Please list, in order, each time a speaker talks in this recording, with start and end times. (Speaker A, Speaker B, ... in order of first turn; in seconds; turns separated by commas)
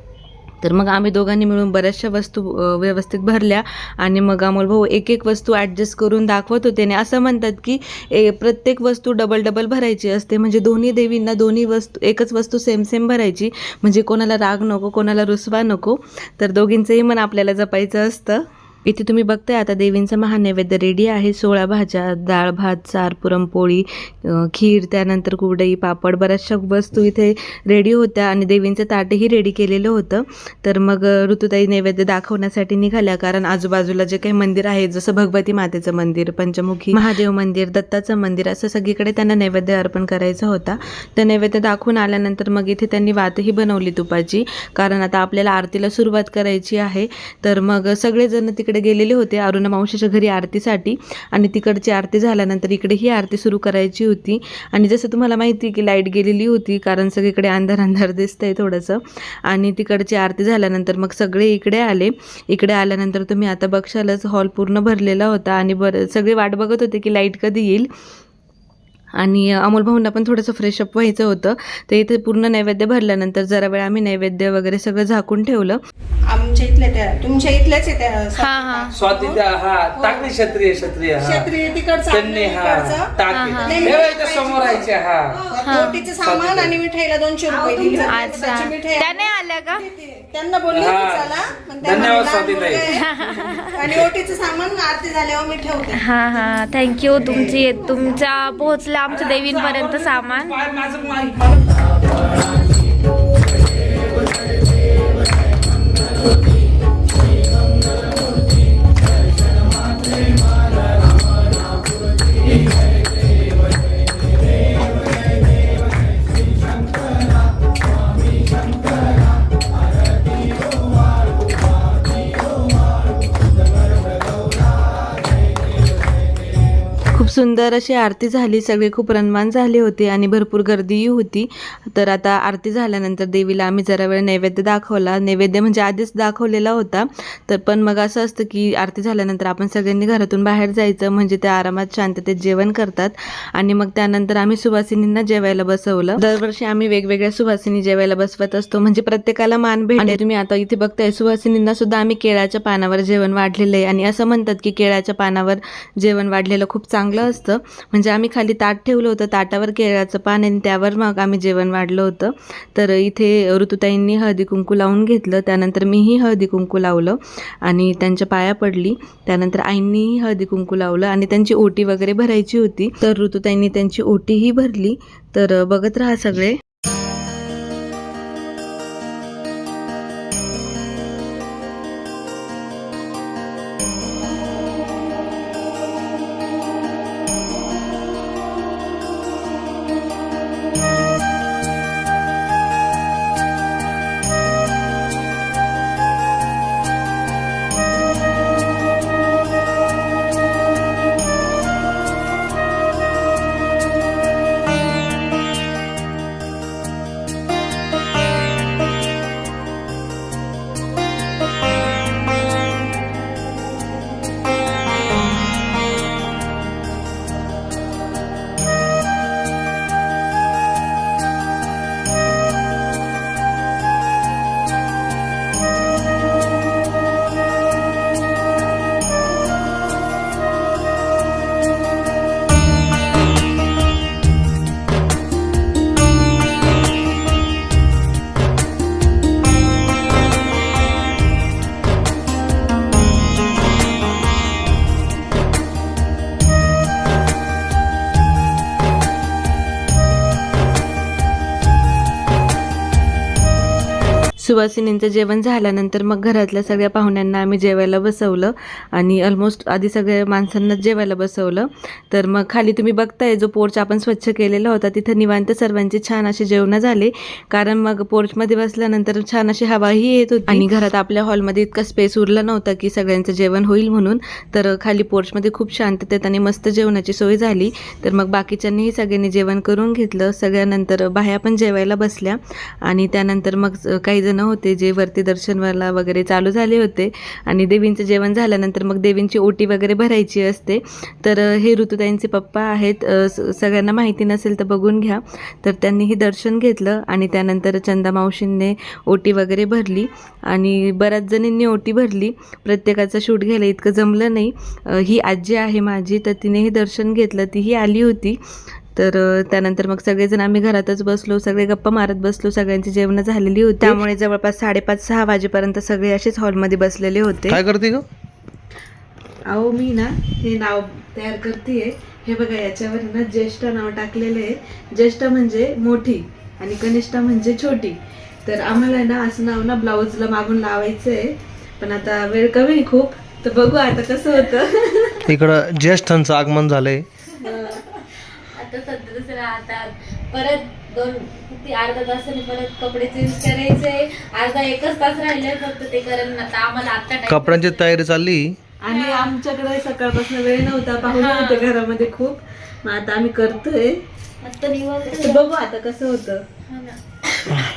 Speaker A: 0.6-67.9, Speaker A: 69.2-75.8, Speaker B: 76.3-79.4, Speaker C: 78.4-78.9, Speaker D: 78.9-85.4, Speaker B: 80.0-80.3, Speaker B: 81.2-89.2, Speaker C: 83.3-83.7, Speaker C: 85.5-86.1, Speaker D: 86.2-86.8, Speaker C: 88.0-89.9, Speaker B: 89.8-93.1, Speaker D: 90.7-92.8, Speaker C: 92.9-93.9, Speaker B: 93.7-96.0, Speaker C: 96.0-100.8, Speaker D: 99.1-101.4, Speaker A: 127.1-176.6, Speaker A: 254.4-308.4, Speaker A: 308.9-317.6, Speaker E: 317.5-318.0, Speaker A: 319.4-335.3, Speaker E: 335.3-337.0, Speaker C: 337.4-338.0, Speaker C: 338.5-347.9, Speaker E: 347.3-348.6, Speaker A: 348.8-354.0, Speaker C: 348.9-349.2, Speaker C: 351.1-351.7, Speaker C: 354.4-355.5, Speaker A: 355.1-356.4, Speaker C: 356.7-357.0